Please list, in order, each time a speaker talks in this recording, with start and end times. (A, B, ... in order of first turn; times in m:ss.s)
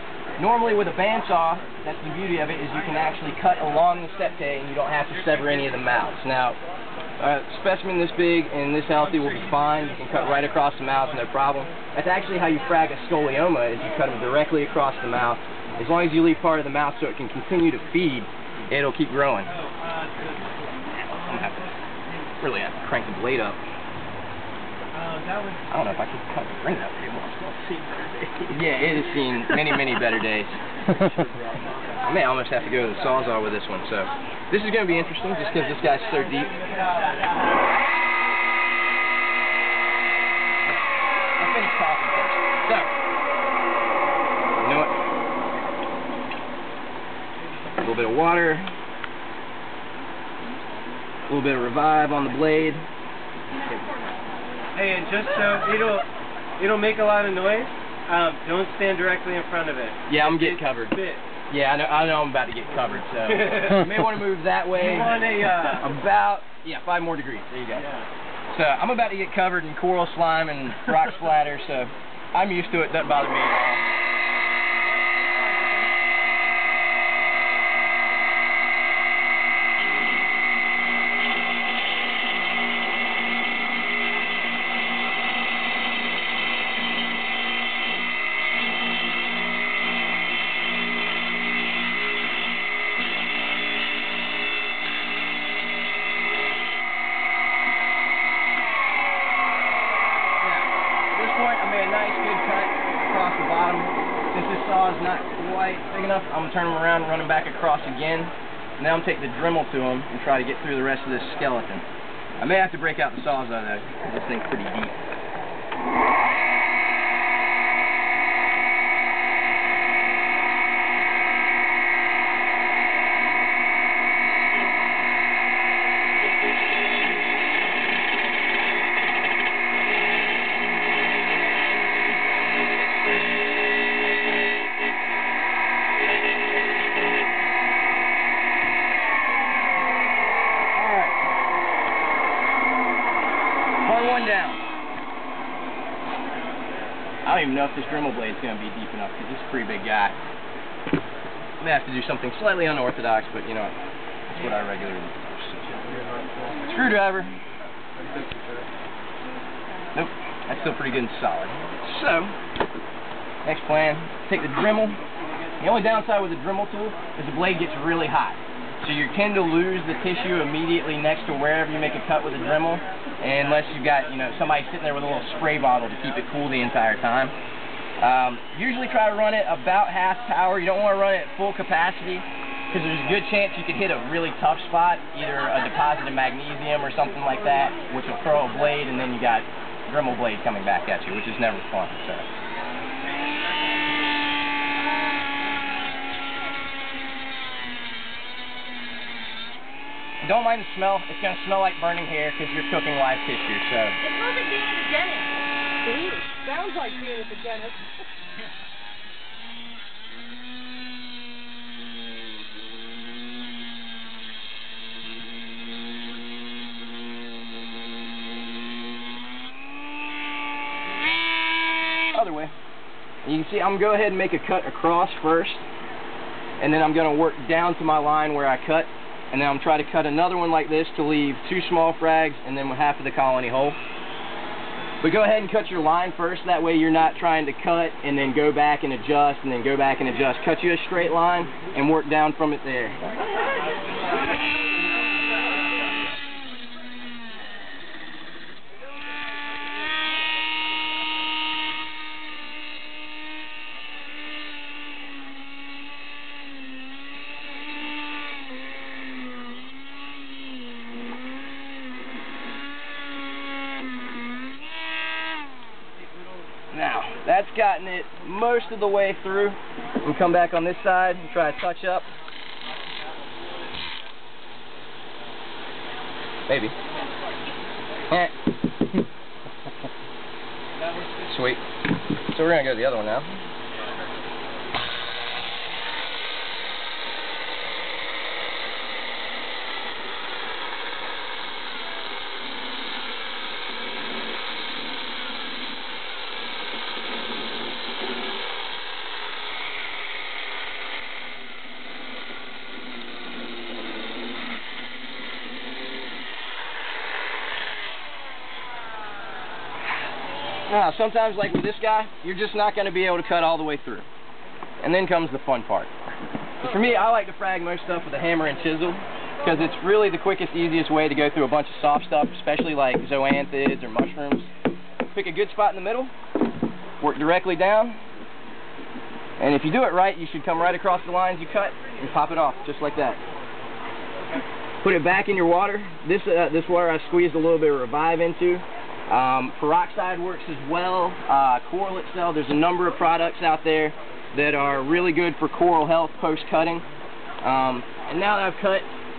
0:00.4-0:06.6 A
0:07.2-0:19.6 A
0:19.6-0:20.1 B
0:20.9-0:21.8 A
0:22.4-0:23.6 A
0:25.0-0:25.6 B
0:25.7-0:36.6 A
0:41.4-0:42.9 A
0:44.6-0:44.9 A
0:47.8-0:48.7 A
0:51.3-0:52.9 A
0:53.6-0:54.3 C
0:54.7-0:56.1 B
0:56.6-1:01.2 B
1:00.1-1:01.0 A
1:01.5-1:07.8 A
1:03.4-1:03.8 B
1:04.7-1:05.8 B
1:08.5-1:13.9 A
1:14.8-1:16.0 C
1:40.4-1:51.8 A
1:52.4-1:55.0 A
2:20.7-2:21.2 A
2:23.8-2:24.6 A
2:27.2-2:30.2 A
2:31.6-2:33.7 A
2:34.3-2:35.8 A
2:36.5-2:37.4 A
2:39.9-2:42.3 A
2:43.4-2:45.0 A
2:45.6-2:57.4 A
2:58.0-3:12.3 A
3:20.2-3:24.0 A
3:24.0-3:27.8 C
3:42.1-3:42.5 A
3:43.2-3:45.6 A
3:46.6-3:53.8 A
3:55.0-4:03.0 A
4:26.7-4:32.1 A
4:36.5-4:36.8 A
4:38.1-4:38.4 A
4:41.1-4:41.6 A
4:42.3-4:43.3 A
5:10.7-5:14.1 A
5:14.8-5:15.9 A
5:16.6-5:24.5 A
5:25.1-5:26.1 A
5:27.0-5:28.0 A
5:29.4-5:33.2 A
5:34.8-5:46.8 A
5:47.4-5:48.9 A